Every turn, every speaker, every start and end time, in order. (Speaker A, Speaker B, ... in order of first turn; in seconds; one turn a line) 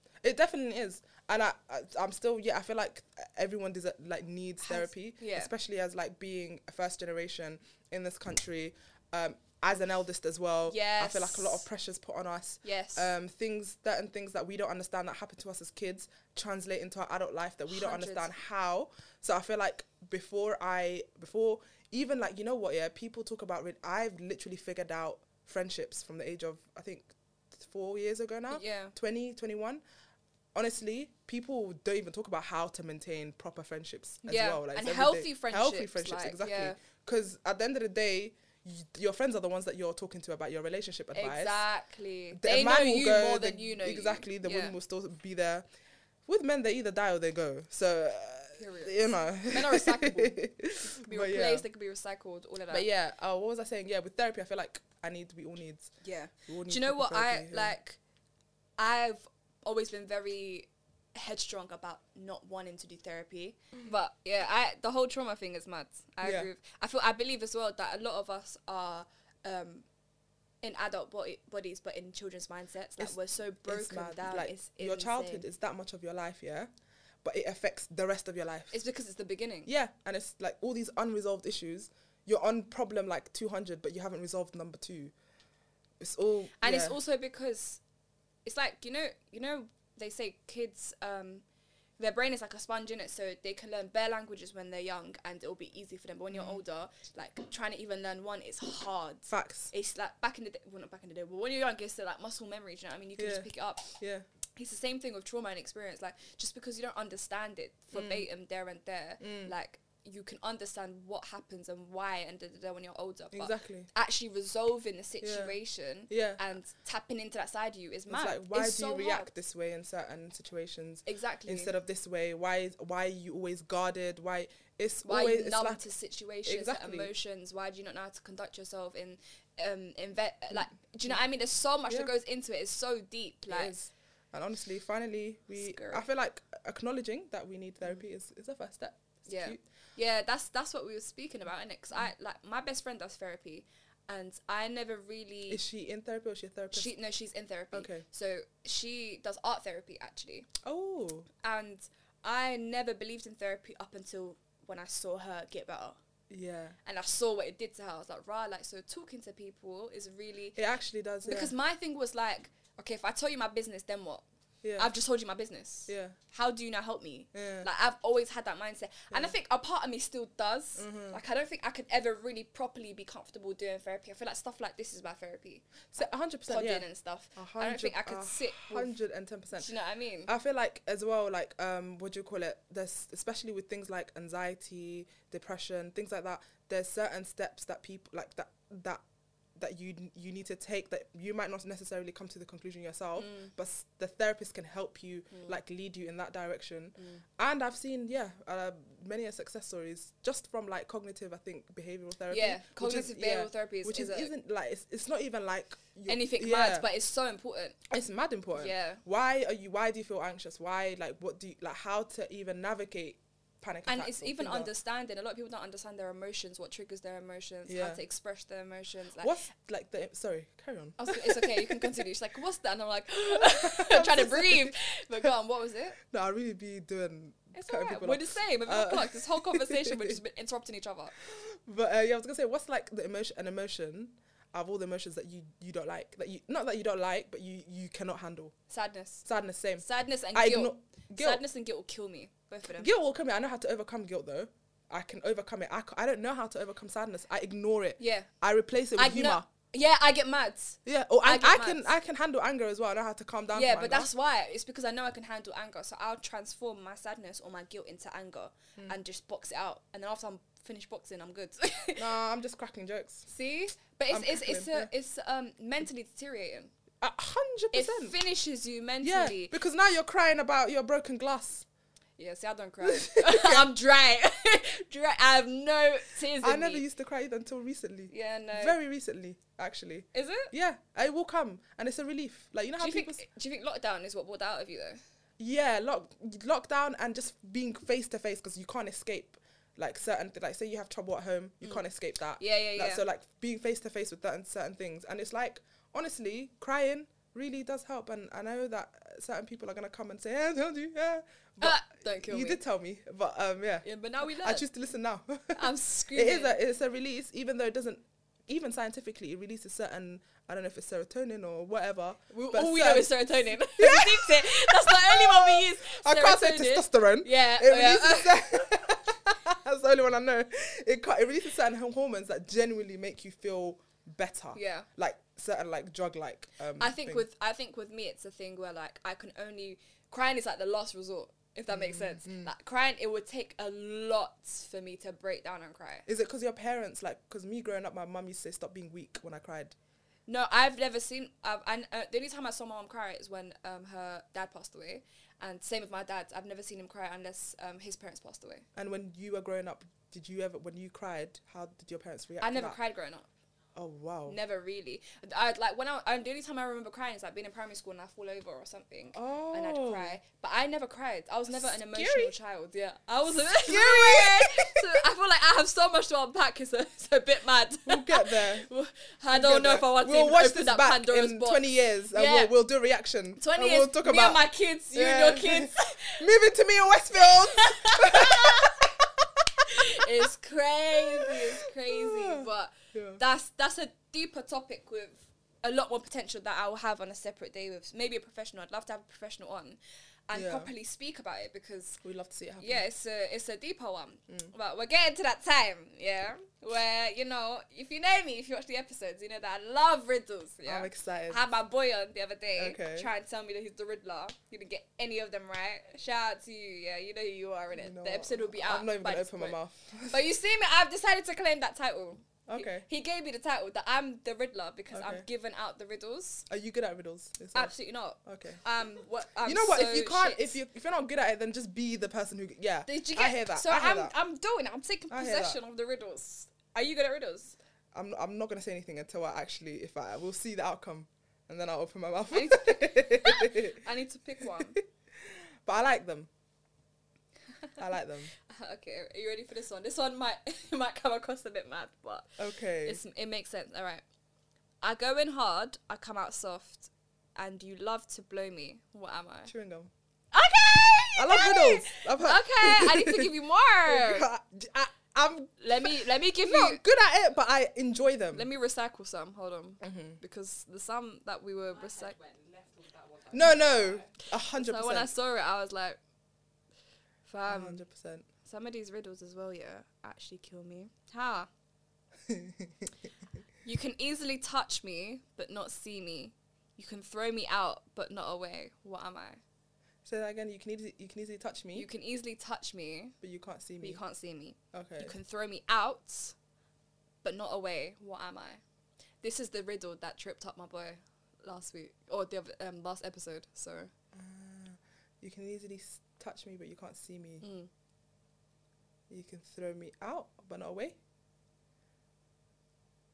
Speaker A: 0.2-29.8
Speaker B: 4.6-5.5
Speaker B: 10.7-11.6
Speaker B: 12.6-13.1
Speaker B: 17.7-18.3
Speaker B: 28.5-28.9
Speaker A: 30.5-41.6
Speaker B: 34.2-36.8
Speaker B: 41.1-44.7
Speaker A: 42.3-45.6
Speaker A: 46.3-51.6
Speaker B: 48.6-52.9
Speaker A: 52.7-55.9
Speaker B: 56.0-58.0
Speaker A: 56.5-57.8
Speaker B: 58.8-69.8
Speaker A: 66.2-66.5
Speaker B: 70.6-75.4
Speaker A: 73.0-76.7
Speaker A: 77.2-78.8
Speaker B: 78.7-79.7
Speaker A: 79.7-85.1
Speaker A: 86.0-87.0
Speaker B: 86.6-87.8
Speaker B: 88.4-91.4
Speaker B: 92.0-104.0
Speaker A: 96.3-96.6
Speaker A: 99.3-99.7
Speaker A: 103.2-103.5
Speaker A: 104.0-104.2
Speaker B: 104.5-119.3
Speaker A: 107.9-108.2
Speaker A: 109.2-109.5
Speaker A: 113.3-113.9
Speaker A: 115.2-115.5
Speaker A: 116.1-116.4
Speaker A: 118.1-125.8
Speaker B: 121.0-121.7
Speaker B: 125.0-133.7
Speaker A: 126.5-127.1
Speaker A: 133.5-139.6
Speaker B: 135.6-136.0
Speaker B: 139.2-145.6
Speaker A: 145.5-146.9
Speaker B: 146.7-150.5
Speaker A: 147.7-148.0
Speaker A: 150.6-151.3
Speaker B: 151.4-156.0
Speaker A: 156.3-156.8
Speaker B: 156.8-160.6
Speaker A: 160.6-161.5
Speaker B: 161.2-164.2
Speaker A: 164.6-164.9
Speaker B: 164.8-178.9
Speaker A: 165.9-166.2
Speaker A: 167.3-167.7
Speaker A: 170.8-171.2
Speaker A: 175.9-179.7
Speaker B: 179.6-180.3
Speaker A: 180.3-189.0
Speaker A: 189.6-206.9
Speaker B: 193.2-193.5
Speaker B: 195.3-195.6
Speaker B: 197.0-197.2
Speaker B: 202.3-204.3
Speaker B: 206.1-207.8
Speaker A: 207.9-214.7
Speaker B: 208.5-209.0
Speaker B: 213.9-219.3
Speaker A: 217.7-218.0
Speaker A: 219.2-222.1
Speaker B: 221.0-226.0
Speaker A: 223.3-225.3
Speaker A: 226.0-230.2
Speaker B: 227.5-231.1
Speaker A: 231.2-238.5
Speaker B: 238.7-239.2
Speaker A: 239.2-241.4
Speaker B: 239.8-242.9
Speaker A: 242.8-249.5
Speaker B: 248.0-248.3
Speaker B: 248.9-251.9
Speaker A: 250.8-254.1
Speaker B: 253.5-262.1
Speaker A: 262.0-263.3
Speaker B: 263.3-266.7
Speaker A: 264.1-264.9
Speaker A: 267.0-268.1
Speaker B: 267.7-269.5
Speaker A: 269.0-271.6
Speaker B: 272.2-276.8
Speaker A: 272.8-273.7
Speaker A: 276.4-283.2
Speaker B: 278.1-278.8
Speaker B: 280.1-280.5
Speaker B: 282.8-285.0
Speaker A: 285.4-303.8
Speaker B: 292.4-293.0
Speaker B: 301.6-302.6
Speaker B: 303.8-304.6
Speaker A: 304.4-327.2
Speaker B: 305.5-306.6
Speaker B: 312.3-318.4
Speaker B: 324.5-324.9
Speaker B: 326.8-336.1
Speaker A: 331.7-332.5
Speaker A: 336.1-339.7
Speaker B: 340.3-348.6
Speaker A: 348.8-352.8
Speaker B: 352.4-353.3
Speaker A: 353.7-354.4
Speaker B: 354.2-372.5
Speaker A: 359.1-360.2
Speaker A: 361.5-362.3
Speaker A: 363.3-364.9
Speaker A: 367.9-368.7
Speaker A: 369.3-380.3
Speaker B: 373.4-376.3
Speaker B: 377.2-378.9
Speaker B: 379.6-392.0
Speaker A: 380.9-383.2
Speaker A: 390.3-390.7
Speaker A: 392.0-392.9
Speaker B: 392.6-409.6
Speaker A: 400.6-401.4
Speaker A: 402.5-403.1
Speaker A: 407.7-410.2
Speaker B: 410.1-416.4
Speaker A: 412.5-412.9
Speaker A: 414.9-415.2
Speaker A: 416.5-418.6
Speaker B: 417.5-420.6
Speaker A: 419.4-424.1
Speaker B: 422.9-427.6
Speaker A: 425.1-425.6
Speaker A: 427.9-433.8
Speaker B: 432.3-434.8
Speaker A: 435.6-436.3
Speaker A: 437.8-438.3
Speaker B: 438.4-444.0
Speaker A: 442.4-443.0
Speaker B: 444.8-449.5
Speaker A: 449.5-449.9
Speaker B: 450.3-454.2
Speaker A: 451.2-453.3
Speaker A: 453.9-458.5
Speaker B: 455.6-456.8
Speaker B: 458.3-462.1
Speaker A: 459.8-460.2
Speaker C: 461.7-464.1
Speaker A: 463.3-465.1
Speaker B: 464.5-466.0
Speaker B: 467.3-467.8
Speaker A: 467.4-468.2
Speaker B: 468.4-471.5
Speaker A: 472.3-472.7
Speaker B: 473.6-479.4
Speaker A: 480.0-481.9
Speaker B: 481.7-483.1
Speaker A: 483.2-484.0
Speaker B: 483.8-486.3
Speaker A: 484.7-485.1
Speaker B: 487.2-488.6
Speaker B: 489.2-493.9
Speaker A: 494.1-497.4
Speaker B: 497.4-497.7
Speaker A: 499.1-500.9